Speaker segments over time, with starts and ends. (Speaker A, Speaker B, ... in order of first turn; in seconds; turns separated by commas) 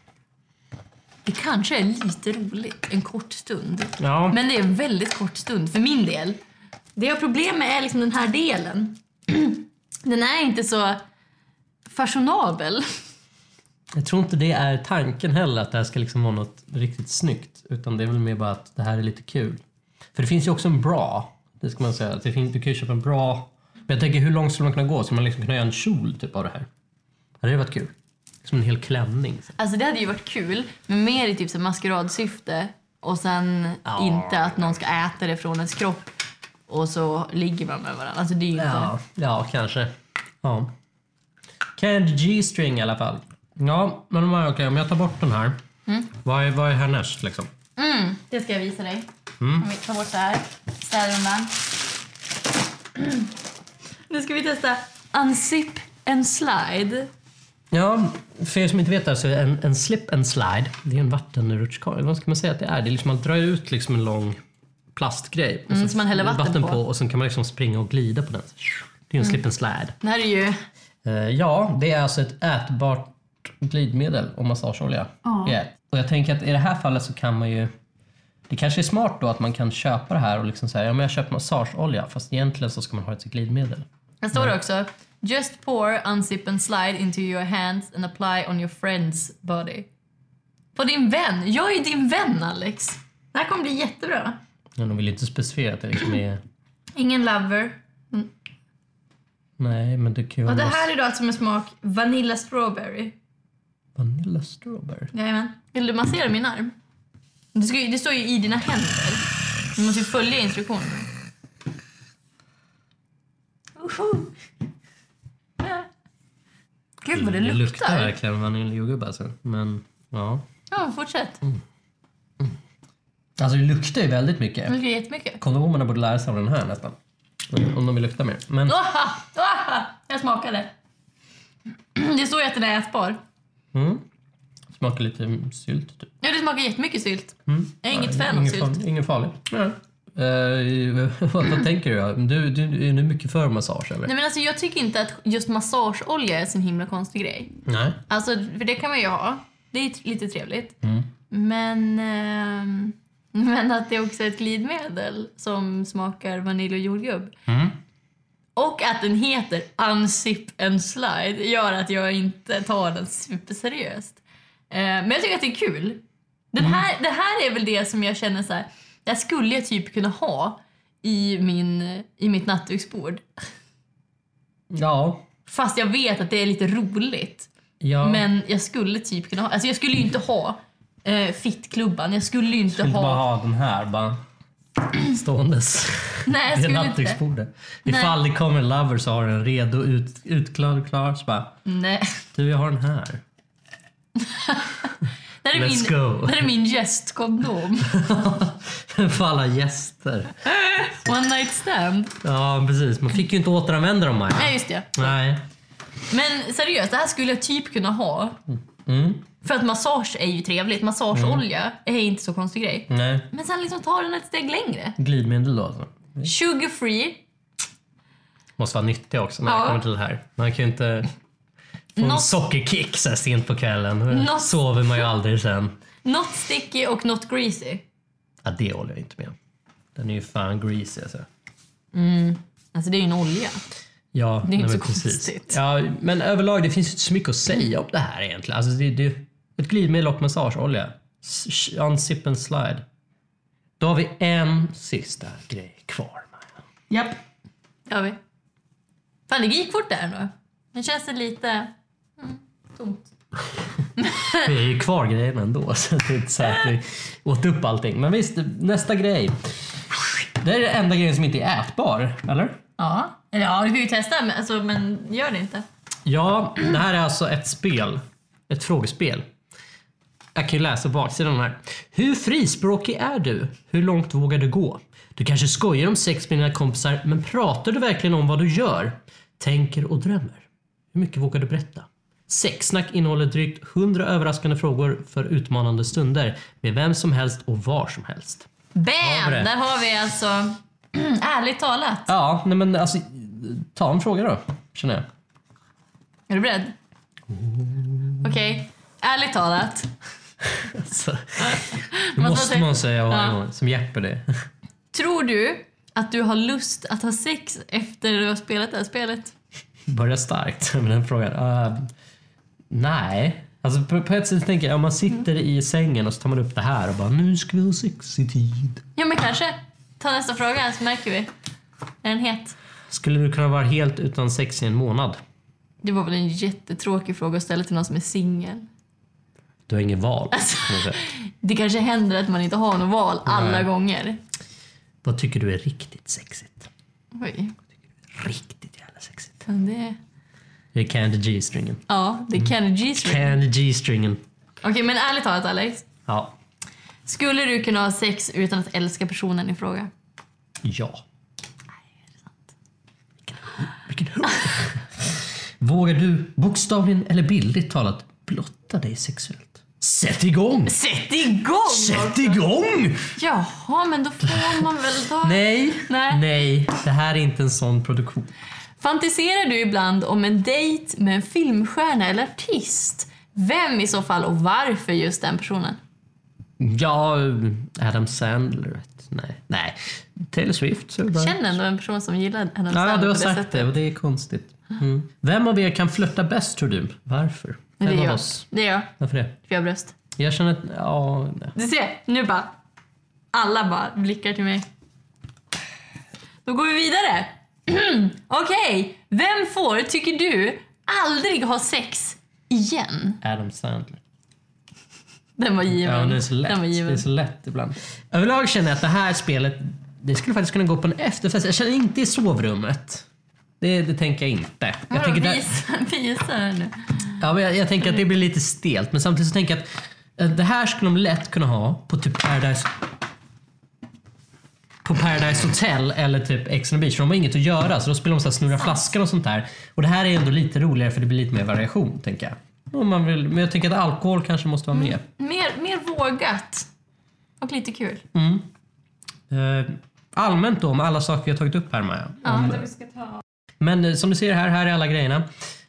Speaker A: 1.3-6.4, Speaker B: 4.0-4.4, Speaker A: 7.0-11.0, Speaker A: 11.9-12.9, Speaker B: 13.9-19.6, Speaker B: 20.1-26.7, Speaker B: 27.4-29.5, Speaker A: 29.6-36.1, Speaker B: 33.9-34.8, Speaker A: 36.7-38.9, Speaker B: 38.6-40.7, Speaker B: 41.8-45.6, Speaker B: 46.2-47.5, Speaker A: 47.8-51.6, Speaker B: 49.4-49.7, Speaker A: 54.1-57.1, Speaker B: 57.7-64.4, Speaker B: 65.0-70.0, Speaker A: 65.7-66.8, Speaker A: 70.0-70.6, Speaker B: 71.0-77.7, Speaker A: 75.2-75.6, Speaker B: 78.5-84.5, Speaker A: 84.2-89.9, Speaker A: 90.8-94.4, Speaker B: 94.8-96.4, Speaker A: 97.0-98.3, Speaker B: 99.6-100.9, Speaker A: 100.5-103.1, Speaker B: 104.0-105.1, Speaker A: 105.1-106.8, Speaker A: 107.5-109.2, Speaker A: 109.8-111.1, Speaker A: 113.8-114.3, Speaker A: 117.0-118.2, Speaker B: 117.1-120.4, Speaker A: 120.7-121.4, Speaker B: 123.4-124.8, Speaker A: 124.7-125.4, Speaker B: 125.4-127.0, Speaker B: 127.5-128.8, Speaker A: 128.7-130.7, Speaker A: 131.9-133.2, Speaker B: 133.7-134.0, Speaker B: 134.7-136.1, Speaker A: 136.2-138.8, Speaker B: 137.5-144.1, Speaker A: 144.1-147.6, Speaker B: 147.7-148.0, Speaker A: 148.1-150.8, Speaker B: 150.8-151.1, Speaker A: 151.3-157.3, Speaker B: 157.5-157.8, Speaker A: 158.6-164.2, Speaker A: 164.7-173.2, Speaker B: 174.7-175.2, Speaker A: 175.5-177.5, Speaker B: 177.8-178.3, Speaker A: 178.0-183.2, Speaker B: 182.7-184.2, Speaker B: 184.9-191.5, Speaker A: 186.3-187.2, Speaker A: 187.9-188.2, Speaker A: 191.7-192.2, Speaker B: 192.3-193.2, Speaker A: 194.2-197.9, Speaker B: 195.5-196.5, Speaker B: 197.8-200.4, Speaker A: 200.5-202.2, Speaker B: 202.2-205.4, Speaker A: 204.3-205.2, Speaker A: 206.1-208.4, Speaker B: 208.5-209.3, Speaker A: 209.4-215.0, Speaker B: 211.1-211.4, Speaker B: 212.9-213.3, Speaker B: 215.0-216.3, Speaker A: 216.2-217.2, Speaker B: 218.6-221.1, Speaker A: 219.4-219.8, Speaker B: 221.9-225.7, Speaker A: 222.0-222.3, Speaker A: 224.1-224.5, Speaker A: 226.1-227.8, Speaker B: 228.4-229.4, Speaker B: 229.9-231.3, Speaker A: 231.9-233.6, Speaker B: 234.1-242.8, Speaker A: 234.5-235.6, Speaker B: 243.8-246.5, Speaker A: 246.9-247.2, Speaker A: 247.9-248.2, Speaker A: 249.3-253.1, Speaker A: 254.0-254.5, Speaker B: 254.4-262.6, Speaker A: 262.8-265.6, Speaker B: 266.1-269.2, Speaker B: 270.4-288.5, Speaker A: 288.7-292.1, Speaker B: 289.0-289.5, Speaker B: 292.1-295.1, Speaker A: 296.3-296.8, Speaker B: 297.3-298.3, Speaker A: 298.2-299.9, Speaker B: 300.5-304.3, Speaker A: 301.4-303.4, Speaker A: 304.9-309.3, Speaker B: 309.9-311.9, Speaker B: 312.7-318.8, Speaker A: 319.0-321.3, Speaker A: 322.0-322.6, Speaker B: 322.9-325.2, Speaker A: 325.8-328.7, Speaker B: 329.7-331.0, Speaker A: 330.3-334.2, Speaker B: 333.3-333.7, Speaker B: 335.0-336.7, Speaker A: 337.1-337.5, Speaker B: 338.1-339.4, Speaker A: 339.5-340.0, Speaker B: 340.7-341.8, Speaker A: 341.9-343.4, Speaker B: 342.4-344.2, Speaker A: 344.6-345.9, Speaker B: 346.1-346.4, Speaker A: 347.1-349.9, Speaker B: 350.6-351.0, Speaker B: 353.3-360.8, Speaker A: 360.7-362.4, Speaker B: 361.7-363.1, Speaker A: 363.2-366.2, Speaker B: 364.3-364.6, Speaker B: 365.2-368.3, Speaker A: 368.8-375.8, Speaker B: 376.6-381.4, Speaker A: 381.1-383.7, Speaker B: 382.7-388.4, Speaker A: 387.8-388.9, Speaker B: 389.0-389.4, Speaker A: 389.5-389.9, Speaker B: 390.2-391.5, Speaker A: 391.6-392.5, Speaker A: 393.3-394.7, Speaker A: 396.5-403.2, Speaker B: 403.2-404.0, Speaker A: 405.4-407.1, Speaker B: 405.7-413.1, Speaker B: 413.6-415.4, Speaker A: 414.9-417.2, Speaker B: 417.2-422.8, Speaker B: 424.8-435.0, Speaker A: 434.7-436.7, Speaker A: 437.4-438.1, Speaker B: 438.1-438.5, Speaker B: 439.3-442.7, Speaker A: 442.2-443.2, Speaker B: 443.6-445.3